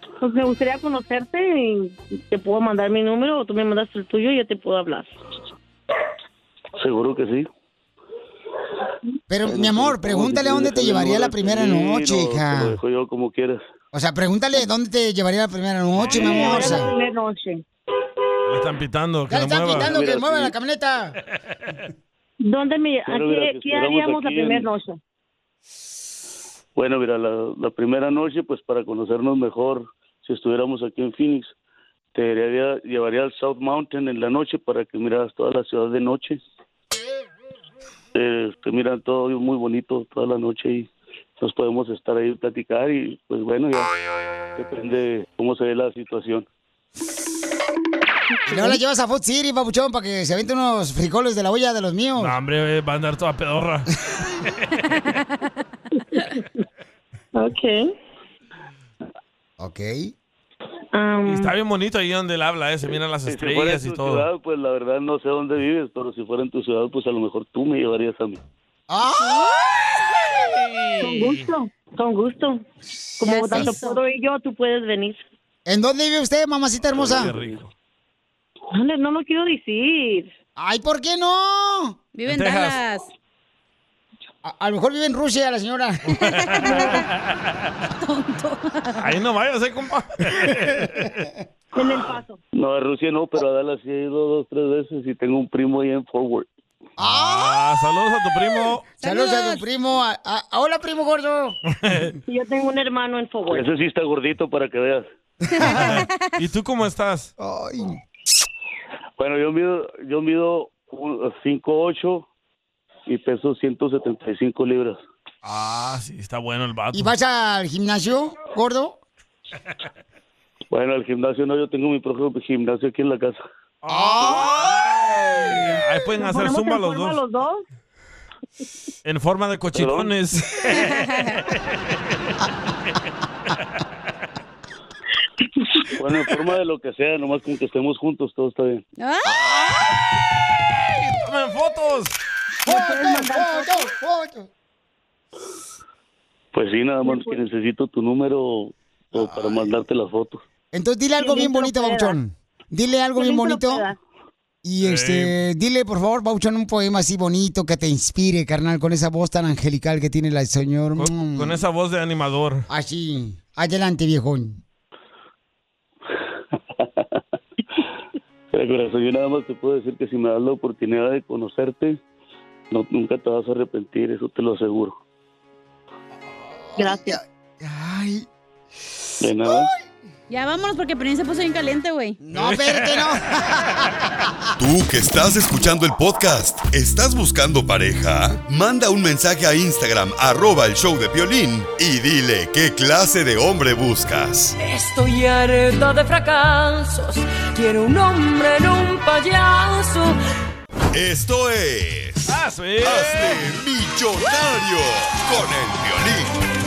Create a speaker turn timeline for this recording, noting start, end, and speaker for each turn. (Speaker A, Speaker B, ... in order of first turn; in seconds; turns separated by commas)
Speaker A: 0.2-5.1, Speaker B: 6.8-7.5, Speaker C: 9.3-12.8, Speaker B: 9.4-13.6, Speaker C: 13.9-16.9, Speaker D: 16.0-16.4, Speaker A: 16.0-17.6, Speaker D: 18.5-20.0, Speaker C: 19.3-21.2, Speaker B: 19.8-20.5, Speaker A: 22.4-25.0, Speaker B: 23.1-24.7, Speaker B: 26.8-31.5, Speaker B: 32.1-36.4, Speaker B: 38.1-40.9, Speaker B: 41.4-43.9, Speaker B: 44.6-46.5, Speaker C: 48.5-52.4, Speaker A: 48.5-48.8, Speaker D: 52.2-54.9, Speaker A: 57.4-57.8, Speaker C: 59.6-60.1, Speaker A: 60.9-61.5, Speaker D: 61.3-64.3, Speaker B: 63.3-68.4, Speaker C: 68.9-69.6, Speaker D: 70.5-71.4, Speaker A: 71.0-72.6, Speaker A: 73.2-75.2, Speaker E: 73.2-74.0, Speaker C: 73.4-73.7, Speaker C: 75.7-77.3, Speaker D: 76.9-77.7, Speaker B: 77.2-77.6, Speaker A: 78.7-80.3, Speaker C: 80.6-82.0, Speaker E: 82.2-83.1, Speaker D: 82.3-82.8, Speaker C: 84.4-86.0, Speaker D: 86.2-87.7, Speaker E: 86.3-87.1, Speaker E: 88.0-89.1, Speaker D: 89.0-91.2, Speaker A: 91.7-92.4, Speaker B: 92.5-96.5, Speaker C: 97.0-97.7, Speaker D: 97.0-98.9, Speaker C: 99.0-101.6, Speaker E: 99.0-99.7, Speaker D: 101.8-102.1, Speaker A: 102.3-103.7, Speaker B: 103.5-105.1, Speaker E: 105.6-106.2, Speaker C: 105.6-106.0, Speaker D: 105.7-107.3, Speaker C: 107.4-108.0, Speaker B: 109.2-112.3, Speaker B: 113.1-115.0, Speaker D: 115.4-117.1, Speaker C: 116.9-119.0, Speaker B: 120.7-123.4, Speaker D: 123.8-127.2, Speaker C: 123.9-124.8, Speaker A: 126.2-127.6, Speaker D: 129.1-131.6, Speaker B: 129.7-130.1, Speaker E: 130.7-131.3, Speaker B: 135.9-138.8, Speaker E: 139.0-139.4, Speaker C: 139.3-139.8, Speaker D: 141.0-142.2, Speaker C: 142.6-144.5, Speaker A: 142.7-143.9, Speaker B: 146.5-150.4, Speaker A: 147.0-147.4, Speaker C: 150.7-153.9, Speaker A: 151.2-152.2, Speaker A: 153.2-154.0, Speaker C: 154.6-161.6, Speaker D: 154.8-155.3, Speaker D: 161.0-162.7, Speaker C: 162.7-164.6, Speaker B: 166.8-167.0, Speaker B: 168.5-172.0, Speaker B: 172.7-174.9, Speaker C: 176.5-178.3, Speaker A: 176.8-177.2, Speaker B: 179.2-179.7, Speaker C: 179.5-179.8, Speaker E: 180.3-182.2, Speaker C: 182.2-184.3, Speaker D: 182.3-183.2, Speaker F: 184.6-194.6, Speaker G: 194.6-200.2, Speaker F: 200.9-206.3, Speaker D: 202.3-203.5